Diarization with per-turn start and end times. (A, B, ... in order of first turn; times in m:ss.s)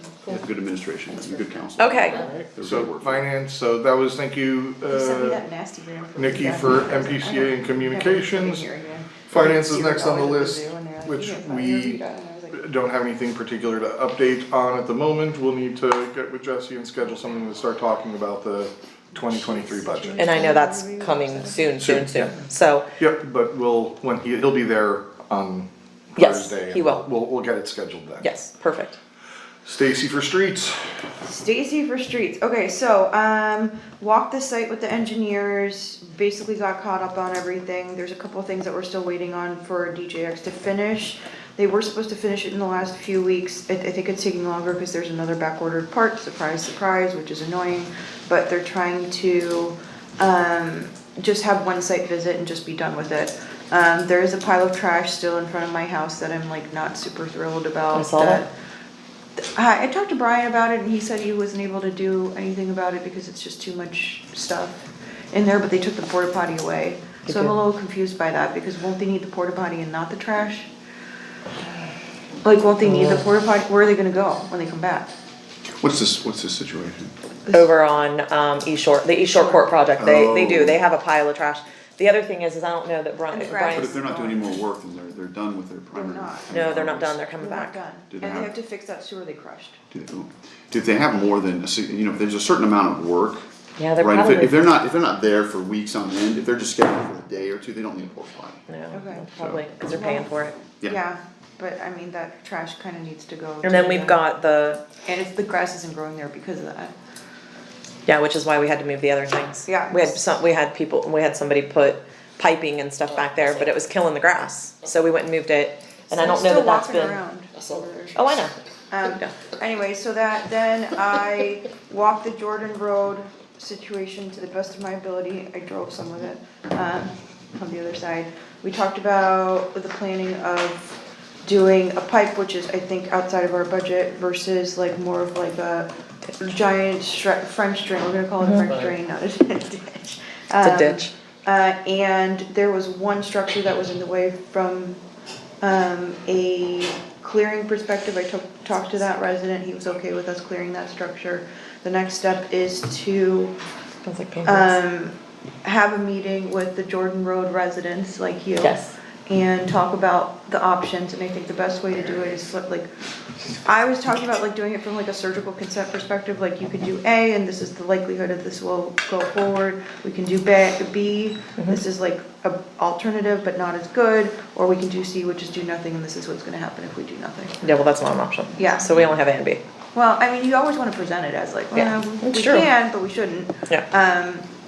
0:00.2-0:03.3 A
0:01.8-0:02.3 B
0:02.1-0:05.4 C
0:04.9-0:12.6 D
0:06.2-0:08.7 C
0:09.3-0:12.0 C
0:12.5-0:20.3 C
0:19.2-0:21.7 D
0:20.2-0:22.9 B
0:21.8-0:22.3 C
0:23.0-0:28.2 C
0:26.2-0:27.0 B
0:28.2-0:29.0 B
0:29.6-0:30.8 C
0:31.2-0:58.5 D
0:57.9-0:58.4 B
0:59.4-1:10.7 D
1:07.3-1:07.5 B
1:12.4-1:15.1 D
1:15.8-1:17.1 A
1:17.5-1:24.4 B
1:19.4-1:19.7 D
1:20.0-1:20.8 A
1:23.3-1:24.1 D
1:23.7-1:27.2 A
1:25.9-1:26.6 D
1:26.5-1:27.8 B
1:27.4-1:29.8 D
1:28.1-1:28.5 A
1:29.9-1:33.4 A
1:33.8-1:34.6 B
1:34.0-1:38.6 A
1:38.7-1:40.6 B
1:38.9-1:39.3 D
1:39.4-1:39.6 A
1:39.9-1:44.2 D
1:43.6-1:44.8 B
1:45.1-1:46.9 D
1:48.1-1:57.2 B
1:49.7-1:50.3 D
1:56.1-1:58.2 D
1:58.2-1:59.4 B
1:58.9-2:15.9 D
2:16.4-2:25.0 D
2:18.4-2:18.8 B
2:20.6-2:21.1 B
2:25.6-2:33.6 D
2:34.0-2:34.8 B
2:34.4-2:38.8 D
2:38.6-2:39.0 B
2:39.3-2:42.9 D
2:43.5-2:57.6 D
2:57.6-2:59.6 B
2:58.6-2:58.9 D
2:59.9-3:04.5 D
3:01.8-3:02.7 B